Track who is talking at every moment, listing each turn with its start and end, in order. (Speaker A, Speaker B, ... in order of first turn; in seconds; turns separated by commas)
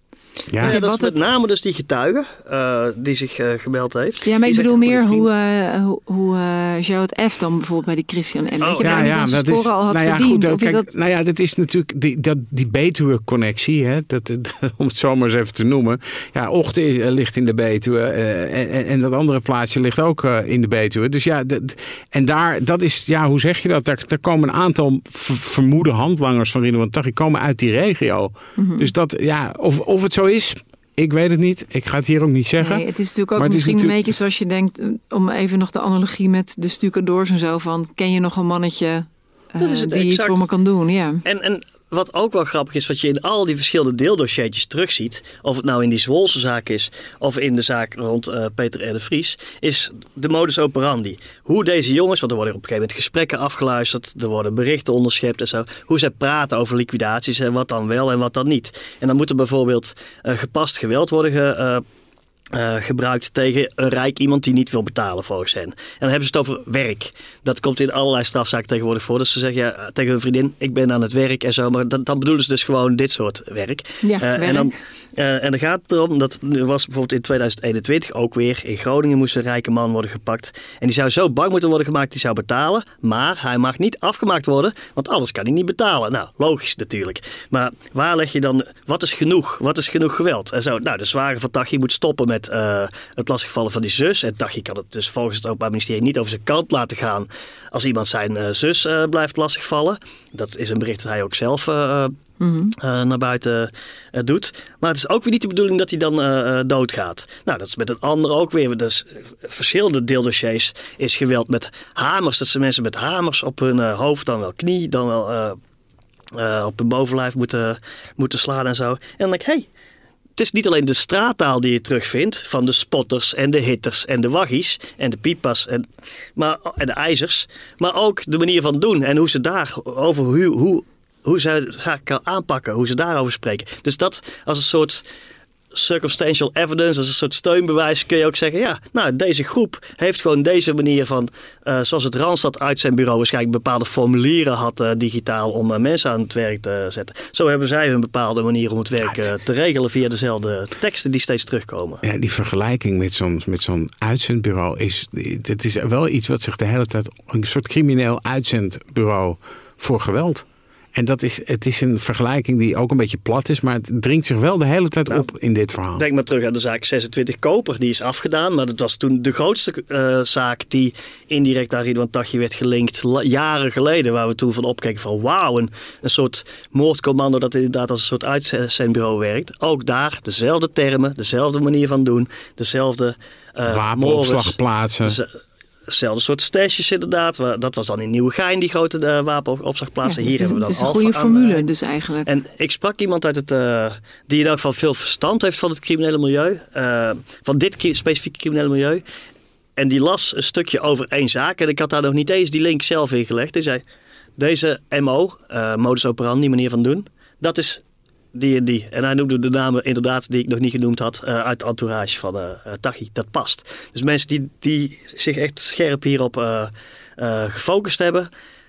Speaker A: 0.5-0.8, Speaker B: 0.6-5.3, Speaker C: 0.6-1.2, Speaker C: 4.2-10.9, Speaker B: 8.6-9.1, Speaker A: 8.8-34.0, Speaker C: 28.6-28.9, Speaker C: 32.6-41.2, Speaker B: 39.6-40.4, Speaker B: 41.2-61.8, Speaker B: 62.5-102.1, Speaker C: 74.0-74.7, Speaker C: 102.4-102.7, Speaker B: 102.8-115.6, Speaker B: 116.3-119.7, Speaker B: 120.4-135.0, Speaker B: 135.7-152.0, Speaker A: 152.0-166.0, Speaker B: 165.9-185.3, Speaker A: 183.6-185.2, Speaker B: 185.9-191.7, Speaker C: 190.0-192.3, Speaker B: 192.2-199.0, Speaker B: 199.8-203.8, Speaker B: 204.4-207.8, Speaker B: 208.3-218.3